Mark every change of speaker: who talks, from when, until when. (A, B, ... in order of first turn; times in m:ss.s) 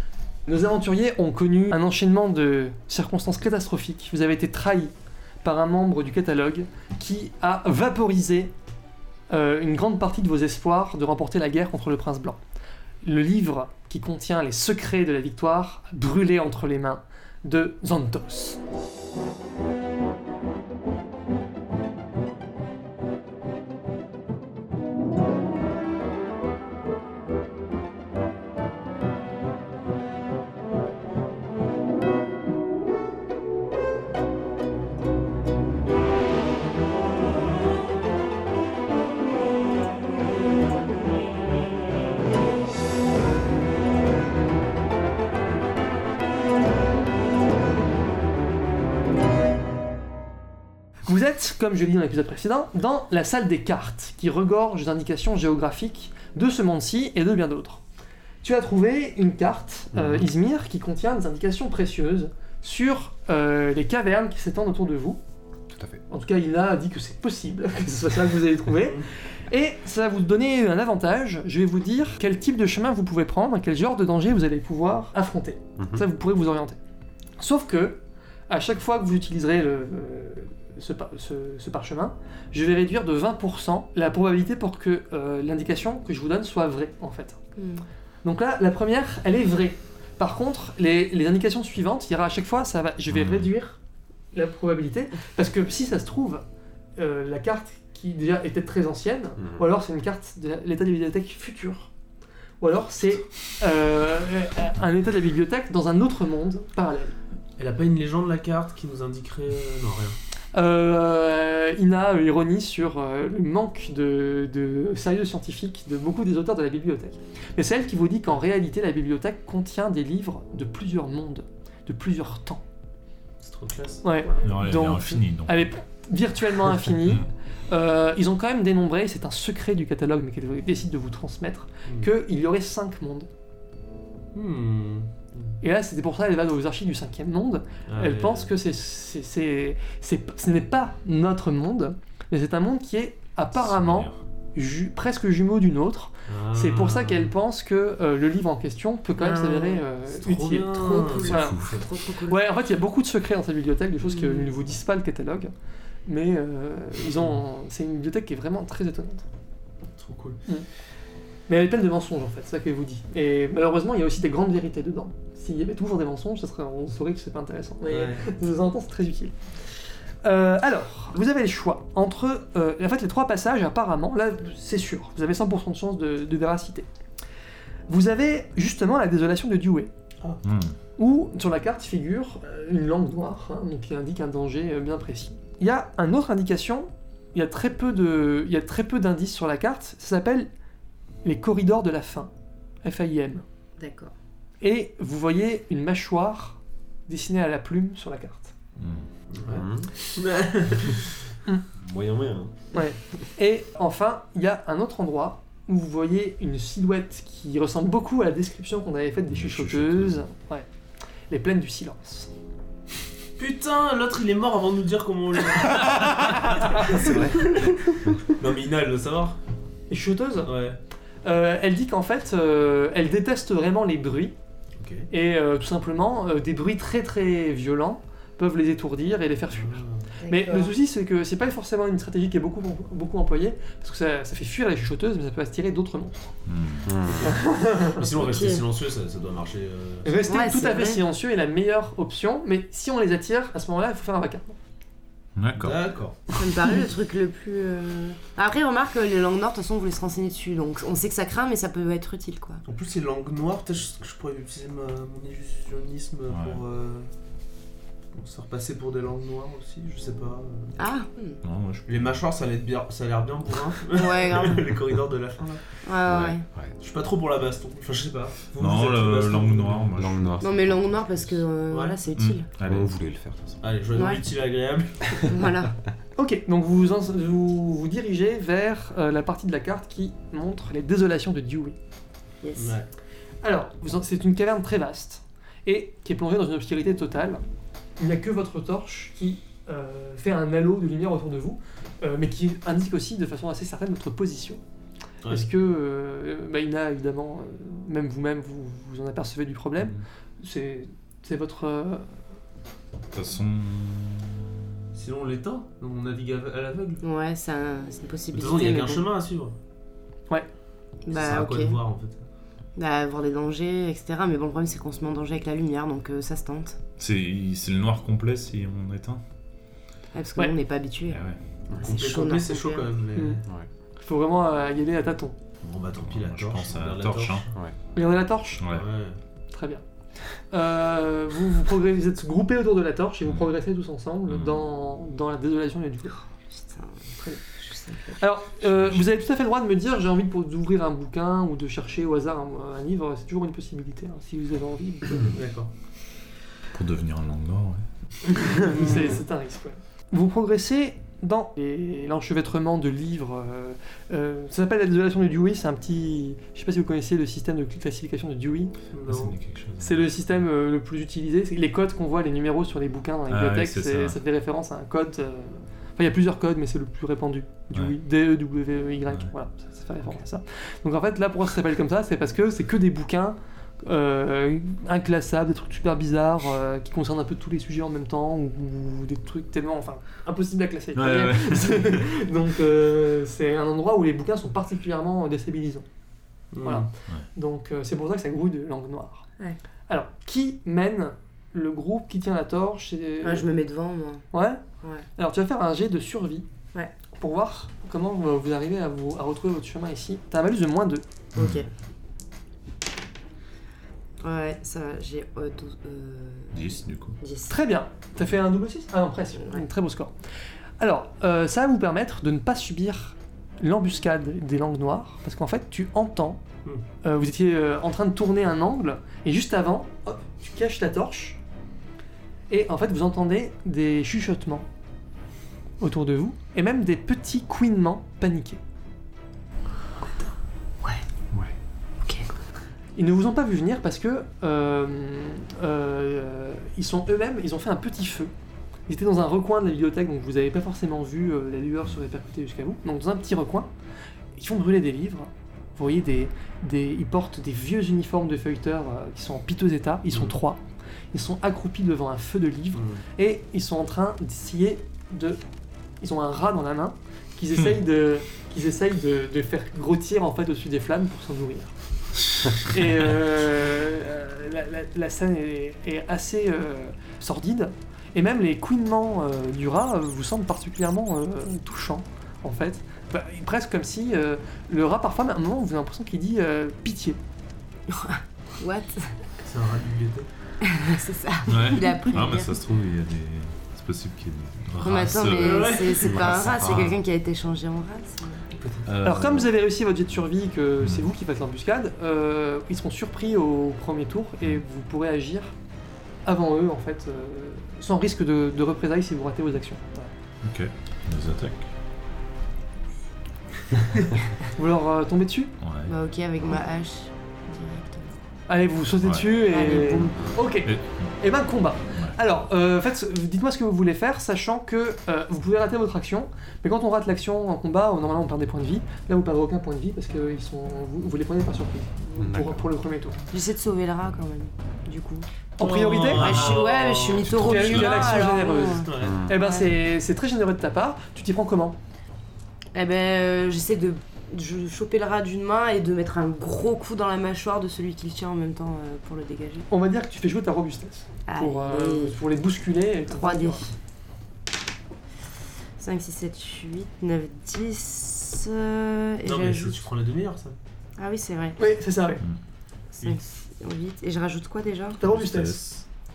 0:00.5-0:08.5 A
0:09.3-0:12.4 A
0:13.0-0:18.6 A
0:51.1-0:57.8 A
0:58.4-1:05.2 A
0:59.9-1:00.2 B
1:05.8-1:06.0 B
1:06.1-1:16.8 A
1:17.4-1:27.4 A
1:27.6-1:27.8 C
1:28.2-1:33.8 A
1:33.1-1:33.5 D
1:34.3-1:36.4 A
1:37.0-1:41.9 A
1:42.6-1:47.2 A
1:47.6-1:50.2 E
1:50.5-2:02.6 A
2:03.4-2:04.0 E
2:04.0-2:13.3 A
2:04.4-2:05.6 D
2:14.3-2:15.6 E
2:15.6-2:31.6 A
2:17.9-2:18.5 E
2:23.6-2:24.2 D
2:26.3-2:27.3 E
2:29.1-2:29.8 C
2:30.1-2:31.4 E
2:30.7-2:32.4 C
2:31.3-2:31.8 D
2:32.2-2:35.5 A
2:34.0-2:34.4 C
2:36.0-2:39.2 A
2:40.0-2:40.4 E
2:41.5-2:49.3 A
2:47.8-2:48.2 E
2:50.2-2:56.9 A
2:57.9-2:59.9 A
3:00.4-3:00.7 D
3:01.0-3:10.5 A
3:11.2-3:12.3 A
3:12.8-3:13.4 A
3:13.8-3:14.1 C
3:14.6-3:18.5 A
3:18.8-3:19.1 D
3:19.3-3:21.1 E
3:19.5-3:19.9 B
3:21.8-3:22.5 B
3:22.7-3:30.7 A
3:29.3-3:30.2 D
3:31.3-3:32.3 A
3:33.4-3:37.2 E
3:36.8-3:38.3 B
3:38.3-3:39.4 E
3:39.9-3:40.5 A
3:40.4-3:40.8 E
3:41.2-3:44.3 A
3:44.8-3:45.1 E
3:45.1-3:56.3 A
3:49.5-3:50.1 E
3:50.2-3:50.7 C
3:56.4-3:56.9 D
3:56.8-3:57.4 B
3:57.2-3:58.1 A
3:57.9-4:00.2 E
3:58.2-3:58.7 C
4:00.0-4:04.6 A
4:00.3-4:01.0 C
4:05.4-4:05.8 D
4:05.6-4:06.3 E
4:06.3-4:12.6 C
4:12.6-4:17.1 E
4:16.3-4:16.6 D
4:18.1-4:20.7 E
4:20.8-4:21.4 C
4:21.4-4:22.2 D
4:21.9-4:25.6 E
4:23.9-4:24.7 C
4:25.8-4:26.4 C
4:26.1-4:26.8 B
4:26.8-4:29.9 E
4:28.6-4:30.7 D
4:30.0-4:30.6 B
4:30.4-4:32.5 C
4:31.7-4:32.0 E
4:32.1-4:32.9 D
4:32.6-4:33.6 B
4:33.6-4:35.0 E
4:33.9-4:34.2 C
4:35.3-4:35.8 C
4:36.2-4:41.8 A
4:42.4-4:42.8 C
4:42.6-4:42.9 E
4:43.4-4:47.4 A
4:48.0-4:54.6 A
4:55.3-5:02.1 A
5:03.1-5:04.5 D
5:04.9-5:07.0 E
5:07.0-5:09.1 C
5:08.3-5:09.5 E
5:11.0-5:11.8 C
5:11.1-5:12.2 E
5:12.8-5:16.8 C
5:17.0-5:19.2 D
5:20.1-5:21.2 C
5:21.1-5:21.4 D
5:21.7-5:23.4 E
5:21.8-5:22.9 C
5:23.1-5:23.4 A
5:24.0-5:25.4 A
5:25.6-5:27.4 E
5:26.0-5:27.5 D
5:27.9-5:28.6 A
5:28.6-5:28.9 D
5:28.7-5:29.2 E
5:29.5-5:29.8 A
5:30.5-5:36.2 A
5:34.3-5:34.6 D
5:36.5-5:37.0 C
5:37.2-5:37.4 A
5:37.6-5:38.2 C
5:38.2-5:45.4 A
5:38.6-5:39.1 D
5:45.3-5:45.7 E
5:46.7-5:48.3 D
5:48.4-5:58.7 A
5:58.9-5:59.3 E
5:59.1-6:00.0 D
5:59.8-6:25.8 A
6:03.3-6:04.2 D
6:09.1-6:09.3 D
6:20.9-6:22.0 D
6:26.5-6:26.9 E
6:26.6-6:29.3 A
6:29.9-6:33.5 A
6:33.2-6:34.2 C
6:34.3-6:34.6 A
6:35.2-6:36.4 A
6:37.1-6:41.0 A
6:41.3-6:41.7 C
6:41.4-6:41.6 D
6:44.2-6:46.6 C
6:46.5-6:47.2 D
6:47.2-6:47.5 C
6:47.5-6:50.1 A
6:50.8-6:56.4 A
6:57.0-7:01.4 A
7:02.5-7:04.6 A
7:05.8-7:08.6 A
7:13.0-7:18.3 A
7:18.9-7:23.7 A
7:24.3-7:30.6 A
7:31.1-7:35.4 A
7:32.7-7:33.0 E
7:36.0-7:41.7 A
7:42.5-7:57.2 A
7:57.9-7:59.2 C
7:59.4-8:00.3 E
8:00.6-8:02.6 C
8:01.5-8:06.9 D
8:04.8-8:08.4 C
8:05.4-8:06.5 E
8:06.0-8:06.9 B
8:08.5-8:08.9 E
8:08.8-8:09.5 D
8:09.0-8:15.5 A
8:10.8-8:11.1 D
8:16.2-8:20.1 A
8:20.4-8:21.7 D
8:24.5-8:25.5 A
8:25.6-8:25.9 D
8:25.9-8:28.2 C
8:28.5-8:43.2 A
8:29.0-8:29.3 D
8:29.5-8:30.3 C
8:30.6-8:31.1 D
8:42.2-8:42.6 B
8:43.3-8:45.3 C
8:45.6-8:46.6 A
8:45.6-8:49.2 E
8:46.0-8:49.7 C
8:47.3-8:51.8 A
8:49.0-8:49.4 B
8:52.7-8:59.7 C
8:59.7-9:03.7 A
9:01.3-9:02.2 C
9:03.1-9:03.6 C
9:05.8-9:09.8 C
9:09.2-9:10.6 E
9:11.0-9:11.6 C
9:11.6-9:12.2 A
9:12.9-9:15.0 C
9:15.0-9:15.6 D
9:15.0-9:15.8 A